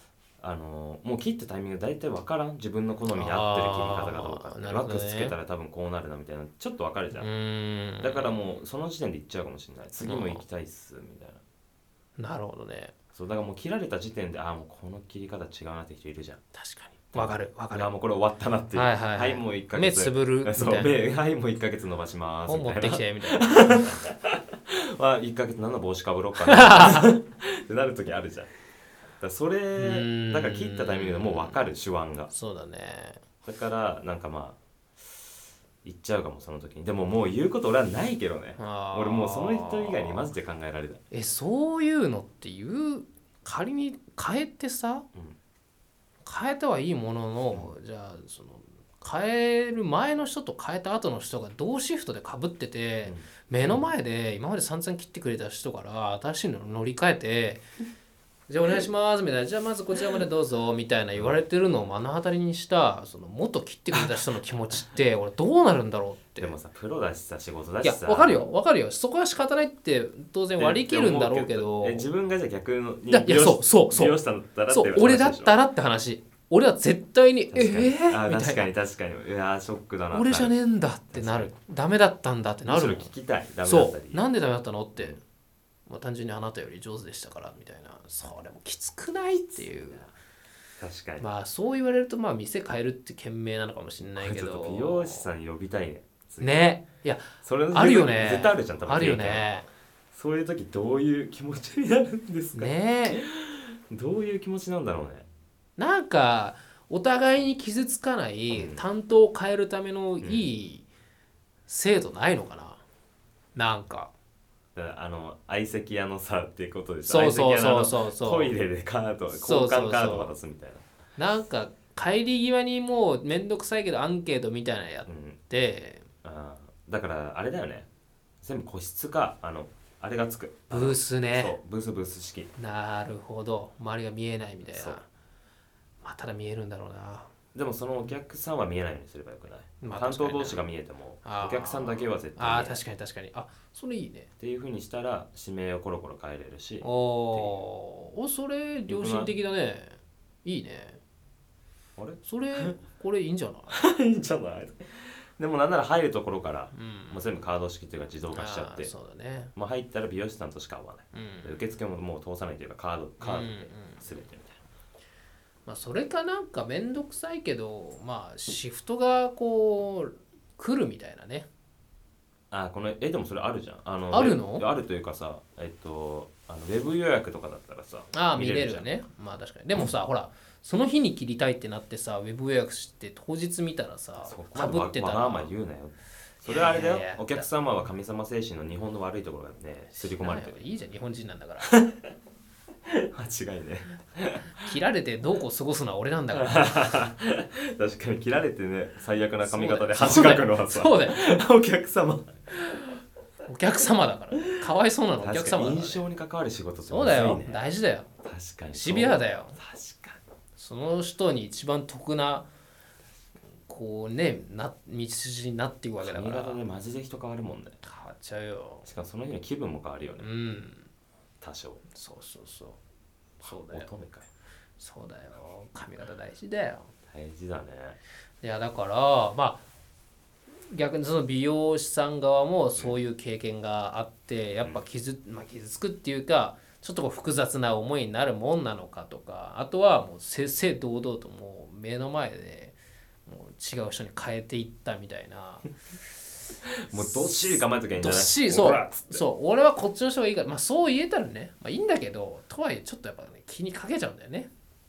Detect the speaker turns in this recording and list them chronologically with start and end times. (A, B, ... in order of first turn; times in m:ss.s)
0:00.4-0:07.3 A
0:03.1-0:05.4 B
0:07.2-0:08.6 B
0:08.0-0:11.4 A
0:10.0-0:10.4 B
0:12.2-0:12.9 B
0:13.1-0:16.4 A
0:16.5-0:17.9 B
0:17.1-0:28.5 A
0:18.7-0:21.0 B
0:22.4-0:24.0 B
0:26.5-0:27.0 B
0:29.2-0:32.3 A
0:29.8-0:31.7 B
0:32.3-0:33.2 B
0:33.4-0:34.6 A
0:35.8-0:41.0 A
0:38.6-0:40.3 B
0:41.1-0:45.0 B
0:46.2-0:57.6 B
0:53.0-0:53.8 A
0:58.5-1:06.5 B
1:01.1-1:01.4 A
1:06.4-1:08.5 A
1:07.8-1:12.1 B
1:10.6-1:15.6 A
1:13.1-1:18.7 B
1:17.5-1:20.5 A
1:20.1-1:23.1 B
1:21.1-1:21.5 A
1:22.6-1:24.2 A
1:23.6-1:25.2 B
1:25.9-1:30.0 B
1:29.5-1:30.1 A
1:30.8-1:31.2 A
1:31.2-1:35.3 B
1:34.2-1:36.6 A
1:36.4-1:39.7 B
1:37.4-1:39.5 A
1:40.1-1:45.3 A
1:42.5-1:43.3 B
1:45.8-1:50.8 B
1:48.5-1:48.8 A
1:50.2-1:50.5 A
1:51.7-1:52.8 B
1:53.5-1:54.1 B
1:54.7-2:00.8 A
1:57.0-1:58.5 B
1:59.3-2:00.3 B
2:01.2-2:06.0 B
2:05.0-2:05.4 A
2:06.2-2:07.9 A
2:08.4-2:12.5 A
2:10.7-2:11.6 B
2:12.6-2:15.0 B
2:14.6-2:15.0 A
2:16.0-2:17.3 B
2:17.5-2:22.8 A
2:19.8-2:20.6 B
2:21.2-2:24.3 B
2:24.4-2:27.6 A
2:26.8-2:31.0 B
2:28.9-2:29.3 A
2:32.0-2:32.8 A
2:32.2-2:33.8 B
2:33.7-2:38.9 A
2:36.7-2:37.3 B
2:38.3-2:39.5 B
2:39.5-2:44.6 A
2:41.1-2:41.7 B
2:43.2-2:44.0 B
2:45.6-2:51.5 B
2:52.5-2:58.9 A
2:54.1-2:54.6 B
2:58.1-3:05.5 B
3:04.2-3:10.6 A
3:06.4-3:07.4 B
3:10.0-3:11.7 B
3:11.6-3:12.0 A
3:12.9-3:14.7 A
3:14.6-3:16.8 B
3:16.3-3:22.4 A
3:19.4-3:21.2 B
3:23.4-3:26.0 B
3:25.2-3:27.6 A
3:26.9-3:28.1 B
3:28.2-3:30.2 A
3:28.7-3:29.6 B
3:30.6-3:32.5 B
3:33.6-3:36.6 B
3:36.0-3:37.8 A
3:37.8-3:38.9 B
3:38.8-3:40.3 A
3:40.2-3:40.9 B
3:41.4-3:41.8 A
3:41.9-3:42.8 B
3:43.4-3:44.3 A
3:43.4-3:43.9 B
3:44.8-3:46.9 B
3:47.1-3:48.0 A
3:48.4-3:49.6 B
3:50.7-4:05.7 B
4:06.8-4:09.2 A
4:06.9-4:14.5 B